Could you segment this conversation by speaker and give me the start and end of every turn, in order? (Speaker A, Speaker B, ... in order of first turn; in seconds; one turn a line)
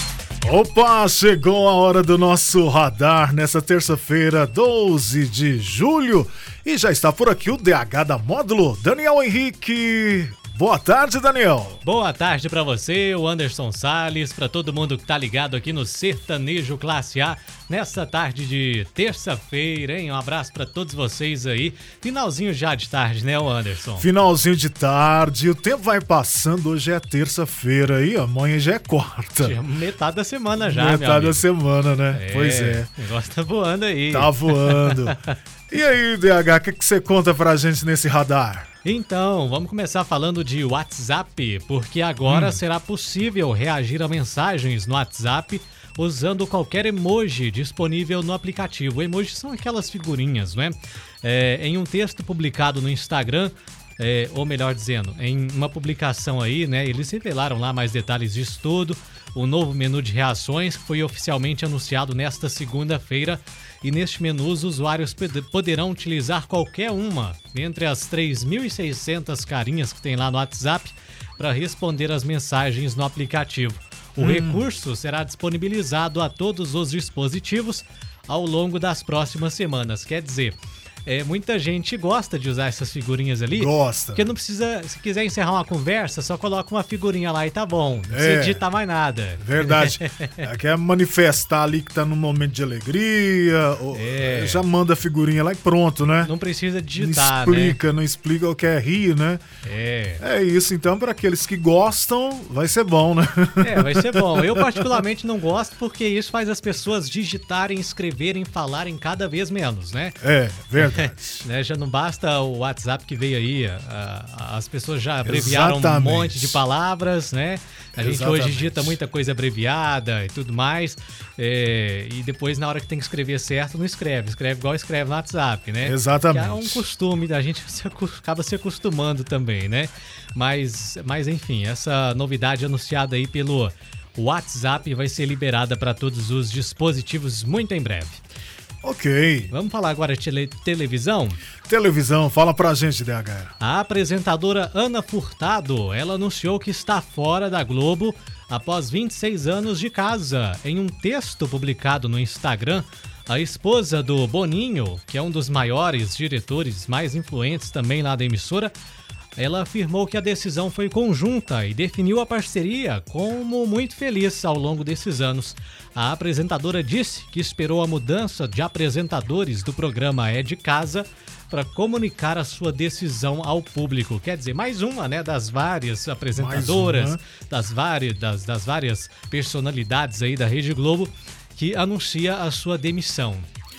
Speaker A: 0.4-11.8
Speaker B: 11.8-24.1
Speaker A: 24.0-29.6
Speaker B: 29.4-31.5
Speaker A: 30.6-32.9
Speaker B: 32.1-35.4
Speaker A: 34.1-38.7
Speaker B: 38.8-90.5
Speaker A: 42.3-42.6
Speaker A: 74.2-74.7
Speaker A: 83.5-84.3
Speaker A: 88.1-88.6
Speaker A: 89.4-96.3
Speaker B: 93.9-94.6
Speaker B: 96.2-97.8
Speaker A: 97.0-99.4
Speaker B: 99.6-100.2
Speaker A: 100.2-105.0
Speaker B: 103.6-110.2
Speaker A: 110.2-111.4
Speaker B: 110.8-138.2
Speaker A: 115.2-116.6
Speaker A: 118.0-119.0
Speaker A: 125.8-126.9
Speaker A: 138.8-139.5
Speaker B: 139.5-141.4
Speaker A: 141.6-143.5
Speaker B: 143.6-158.7
Speaker B: 159.3-183.5
Speaker A: 176.3-177.2